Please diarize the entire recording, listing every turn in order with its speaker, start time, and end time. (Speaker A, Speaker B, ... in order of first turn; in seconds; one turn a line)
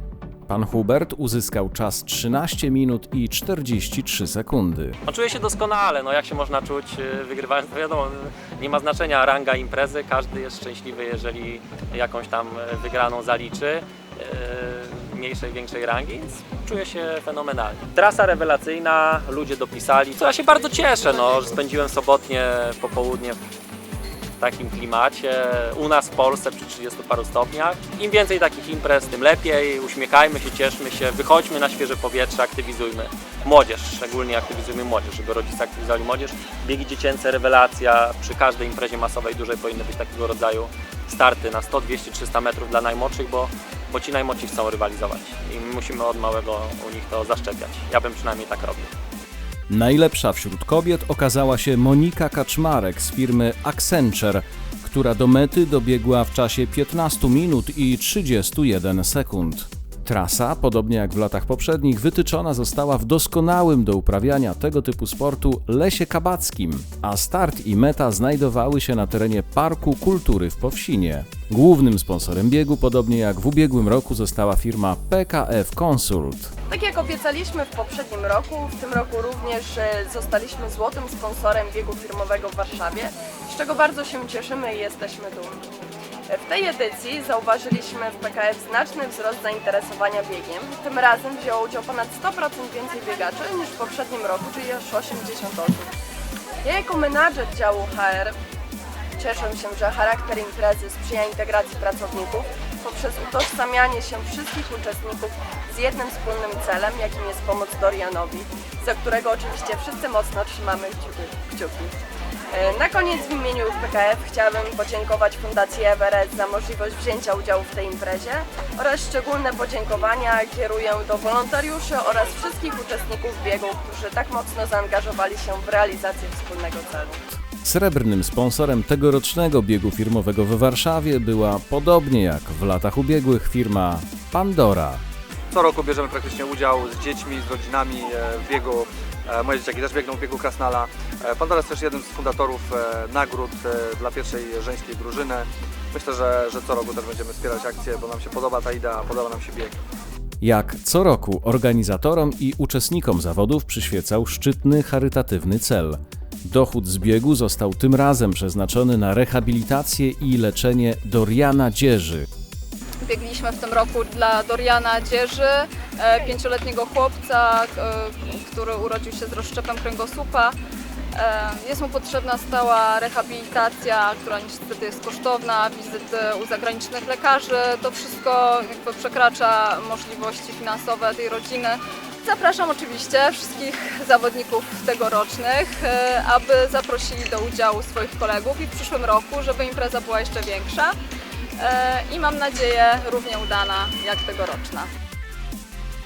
Speaker A: 0.5-5.0
Speaker B: 5.1-23.4
Speaker B: 24.4-48.9
Speaker A: 49.7-76.5
Speaker C: 76.7-85.6
Speaker C: 86.3-95.9
Speaker C: 96.6-98.3
Speaker C: 99.2-111.9
Speaker C: 112.5-127.2
Speaker A: 127.6-135.0
Speaker D: 135.5-149.8
Speaker A: 150.4-162.3
Speaker E: 163.0-170.6
Speaker E: 171.2-190.9
Speaker E: 191.6-194.9